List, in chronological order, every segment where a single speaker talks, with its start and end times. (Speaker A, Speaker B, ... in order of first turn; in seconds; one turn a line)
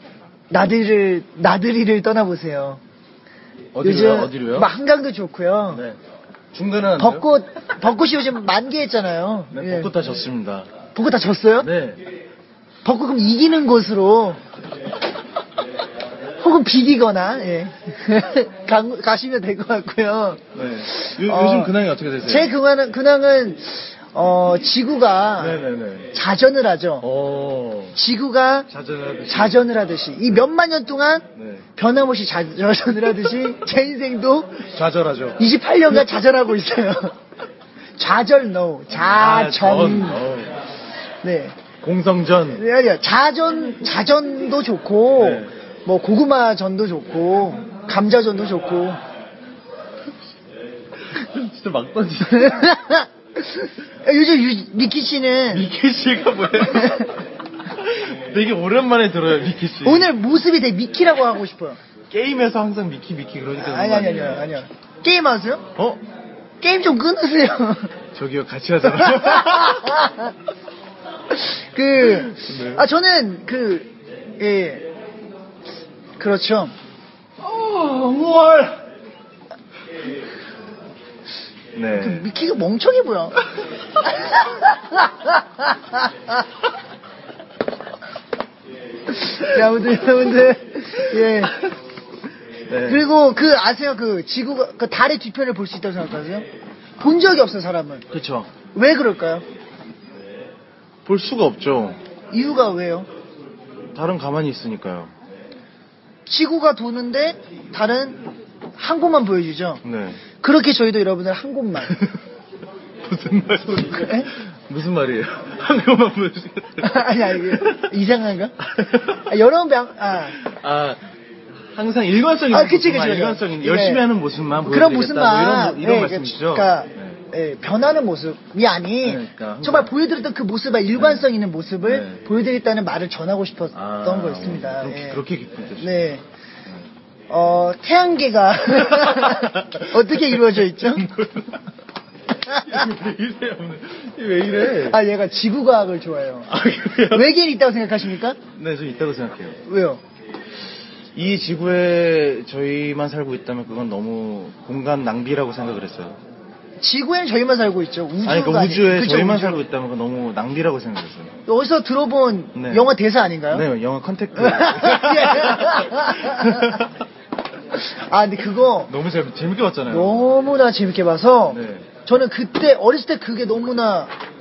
Speaker A: 0.5-2.8
Speaker B: 3.7-4.7
Speaker A: 3.8-5.8
Speaker B: 5.7-6.0
Speaker B: 6.5-7.2
Speaker A: 7.0-9.9
Speaker B: 9.5-10.7
Speaker A: 10.9-11.7
Speaker B: 11.6-12.0
Speaker A: 12.8-14.4
Speaker A: 16.4-25.6
Speaker B: 20.5-22.5
Speaker B: 25.4-26.1
Speaker A: 26.1-27.1
Speaker B: 27.0-28.0
Speaker A: 27.9-28.7
Speaker B: 28.7-29.6
Speaker A: 29.3-34.7
Speaker B: 31.4-31.6
Speaker B: 34.7-35.4
Speaker A: 35.4-37.1
Speaker A: 38.0-40.3
Speaker B: 38.9-40.5
Speaker A: 41.2-41.5
Speaker B: 41.8-42.6
Speaker A: 42.5-49.0
Speaker B: 45.2-45.5
Speaker B: 51.0-52.7
Speaker A: 52.4-55.7
Speaker B: 55.5-60.1
Speaker A: 59.8-61.8
Speaker B: 62.1-64.6
Speaker A: 63.5-65.6
Speaker B: 65.8-66.0
Speaker A: 66.6-67.9
Speaker B: 68.1-70.0
Speaker A: 68.9-70.3
Speaker A: 71.3-74.9
Speaker B: 72.1-72.8
Speaker A: 76.2-76.7
Speaker B: 77.4-78.8
Speaker B: 81.7-82.2
Speaker A: 81.9-83.4
Speaker A: 84.0-86.1
Speaker A: 89.1-91.6
Speaker B: 92.7-93.0
Speaker A: 92.8-96.5
Speaker A: 97.0-98.0
Speaker B: 98.1-98.5
Speaker A: 98.7-99.4
Speaker B: 101.0-102.0
Speaker A: 102.3-103.1
Speaker B: 103.9-105.1
Speaker A: 106.2-109.8
Speaker B: 109.8-110.2
Speaker A: 110.4-112.0
Speaker B: 111.9-112.2
Speaker B: 113.0-117.9
Speaker A: 114.0-114.3
Speaker A: 116.8-118.5
Speaker B: 118.7-119.2
Speaker A: 119.1-120.4
Speaker B: 120.3-121.0
Speaker B: 121.7-127.2
Speaker A: 122.5-124.0
Speaker A: 124.6-135.2
Speaker B: 129.0-129.9
Speaker B: 130.9-131.3
Speaker B: 131.8-132.2
Speaker B: 133.7-136.0
Speaker A: 135.8-136.2
Speaker A: 137.3-141.1
Speaker B: 138.9-141.5
Speaker B: 142.4-145.0
Speaker A: 144.7-148.4
Speaker B: 146.5-147.2
Speaker B: 148.5-149.6
Speaker A: 149.7-150.0
Speaker B: 151.1-156.2
Speaker A: 156.8-159.6
Speaker B: 158.2-161.3
Speaker A: 161.4-163.7
Speaker B: 162.5-162.9
Speaker B: 163.5-166.9
Speaker A: 164.3-166.8
Speaker A: 167.7-168.9
Speaker B: 168.9-170.3
Speaker A: 169.9-174.1
Speaker B: 171.5-171.9